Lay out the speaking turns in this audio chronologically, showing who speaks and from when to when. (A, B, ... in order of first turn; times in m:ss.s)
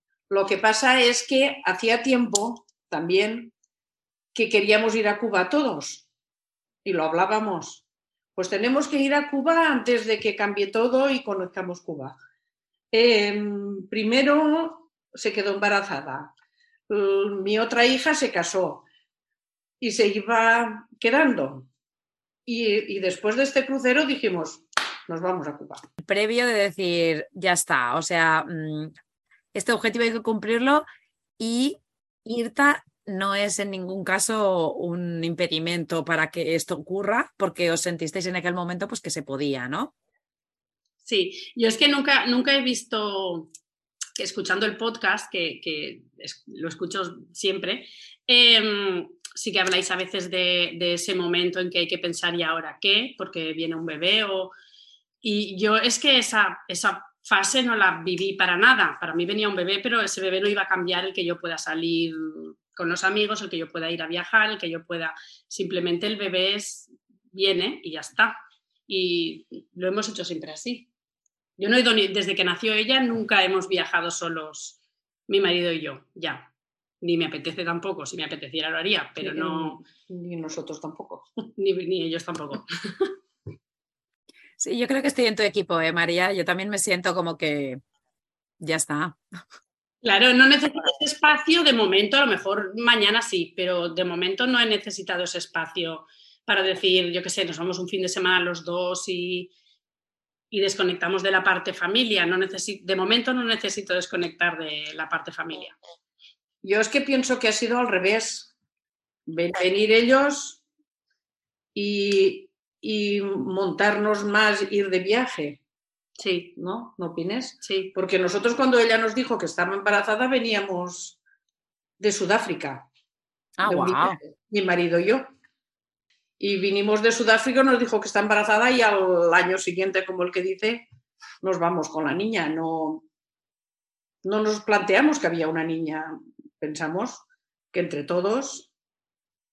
0:00.3-0:03.5 A
0:04.3-0:06.0 A
0:06.8-0:07.8 A
0:08.4-0:12.2 A
0:12.9-0:16.3 A
0:16.9-0:18.8 A
0:19.8-0:21.7 A
0:22.4-0:25.8 A
0:26.0-0:28.9 B
0:29.5-0:30.8 B
0:31.4-0:39.9 B
0:41.0-0:43.5 C
0:44.2-0:54.5 C
0:55.2-1:08.3 C
1:08.9-1:10.9 C
1:11.6-1:16.5 C
1:17.0-1:19.8 C
1:19.2-1:21.3 A
1:21.6-1:23.1 C
1:24.6-1:27.8 B
1:28.6-1:29.2 B
1:30.0-1:39.5 C
1:40.5-1:45.8 C
1:46.6-1:48.5 A
1:49.3-1:50.6 A
1:51.7-1:55.6 A
1:56.2-1:56.5 C
1:56.5-2:01.2 A
1:57.6-1:57.9 C
2:02.0-2:02.9 A
2:03.6-2:04.2 B
2:03.6-2:05.3 A
2:06.4-2:10.8 A
2:11.4-2:13.0 A
2:14.2-2:18.7 A